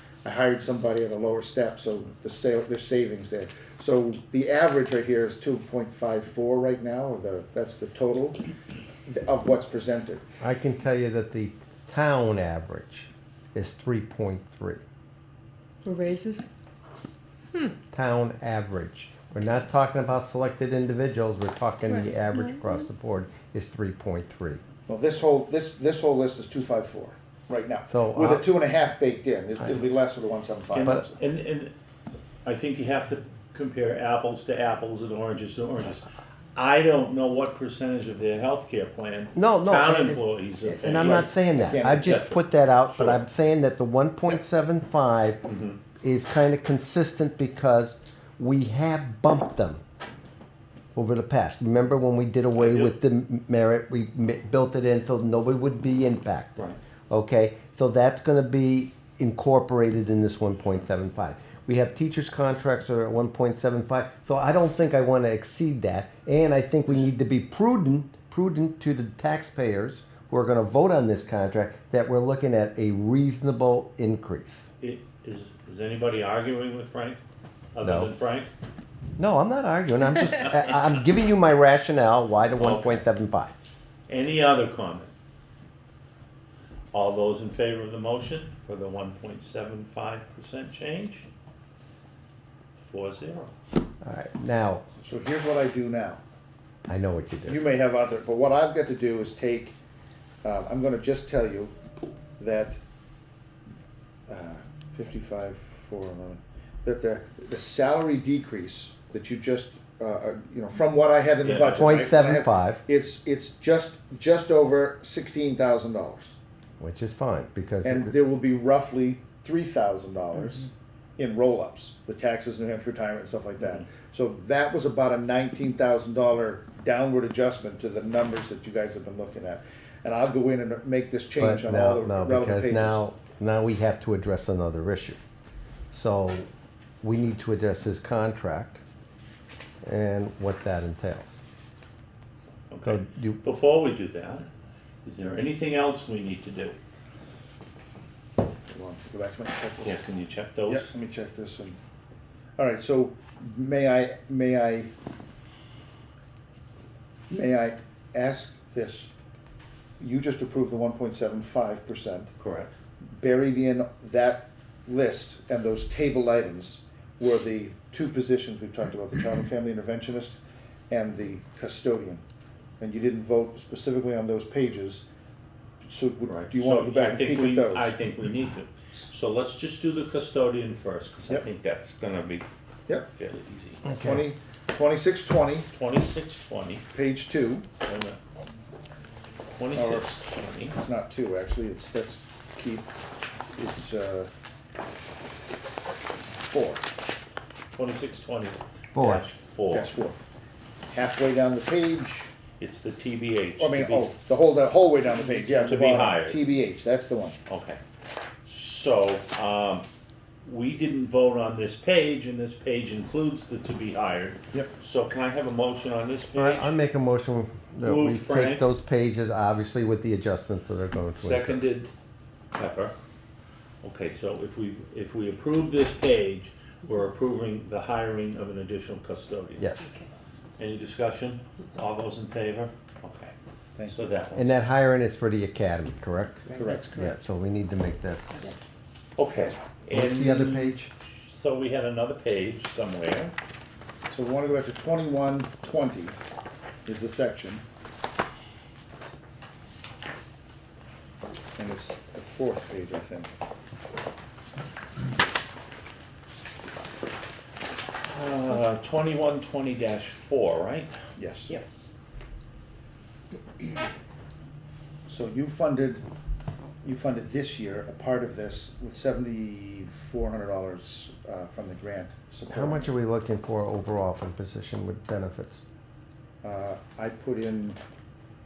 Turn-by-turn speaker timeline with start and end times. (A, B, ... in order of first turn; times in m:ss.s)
0:00.2-0:08.4 A
0:09.1-0:10.2 A
0:10.4-0:14.8 B
0:15.8-0:16.5 C
0:17.9-0:24.6 B
0:21.9-0:22.8 C
0:24.9-0:31.2 A
0:27.9-0:28.5 B
0:30.7-0:31.7 D
0:32.4-0:43.2 D
0:39.4-0:45.4 B
0:41.6-0:42.2 A
0:45.4-0:45.8 D
0:46.0-0:49.8 B
0:51.0-1:14.7 B
0:52.6-0:52.9 D
1:14.8-1:17.2 D
1:17.8-1:18.5 D
1:17.8-1:18.1 B
1:19.2-1:23.5 B
1:22.6-1:22.9 D
1:24.1-1:25.1 D
1:26.9-1:31.3 D
1:32.8-1:33.5 D
1:34.0-1:34.8 B
1:35.0-1:36.2 A
1:36.9-1:37.6 B
1:37.5-1:39.8 A
1:40.4-1:41.8 A
1:42.4-1:42.8 A
1:44.3-1:56.3 A
1:51.4-1:52.0 D
1:51.6-1:52.8 B
1:56.8-1:58.1 B
1:57.8-2:00.7 A
2:01.2-2:13.0 A
2:11.4-2:15.2 B
2:15.9-2:16.5 B
2:17.0-2:18.8 B
2:19.8-2:21.4 B
2:22.7-2:24.5 D
2:22.8-2:23.4 B
2:25.0-2:26.8 D
2:28.7-2:30.0 A
2:29.8-2:30.9 D
2:30.7-2:31.8 A
2:32.6-2:34.9 A
2:37.3-2:39.1 A
2:40.0-2:42.3 A
2:42.4-2:42.7 D
2:43.1-2:50.4 A
2:50.9-2:52.2 A
2:52.8-2:55.0 A
2:55.8-2:58.0 A
2:56.3-3:02.5 D
3:03.1-3:03.9 D
3:03.8-3:04.3 B
3:03.9-3:05.7 A
3:05.7-3:06.9 D
3:06.9-3:07.7 A
3:07.8-3:08.2 D
3:09.6-3:10.8 D
3:09.7-3:10.1 A
3:10.7-3:14.3 A
3:14.9-3:15.7 A
3:16.3-3:16.8 A
3:17.7-3:19.9 D
3:18.9-3:19.3 B
3:19.7-3:20.2 A
3:20.9-3:22.3 A
3:22.6-3:24.1 D
3:23.6-3:27.4 A
3:25.2-3:26.4 D
3:27.5-3:27.8 D
3:28.4-3:29.9 D
3:30.4-3:36.8 D
3:36.4-3:41.6 B
3:37.8-3:38.6 D
3:41.1-3:41.9 D
3:42.6-3:42.9 D
3:43.8-3:49.6 D
3:49.6-3:49.9 B
3:49.8-3:50.1 C
3:50.6-3:53.3 D
3:53.9-3:54.6 D
3:54.3-3:58.5 B
3:56.5-3:57.2 C
3:56.5-3:56.9 A
3:59.2-4:03.3 D
3:59.9-4:00.9 B
4:04.1-4:06.2 A
4:06.9-4:07.6 A
4:11.6-4:13.3 A
4:18.1-4:20.9 D
4:21.2-4:21.5 A
4:21.5-4:21.9 C
4:25.1-4:26.0 A
4:26.8-4:32.9 A
4:32.5-4:35.6 B
4:36.4-4:37.8 A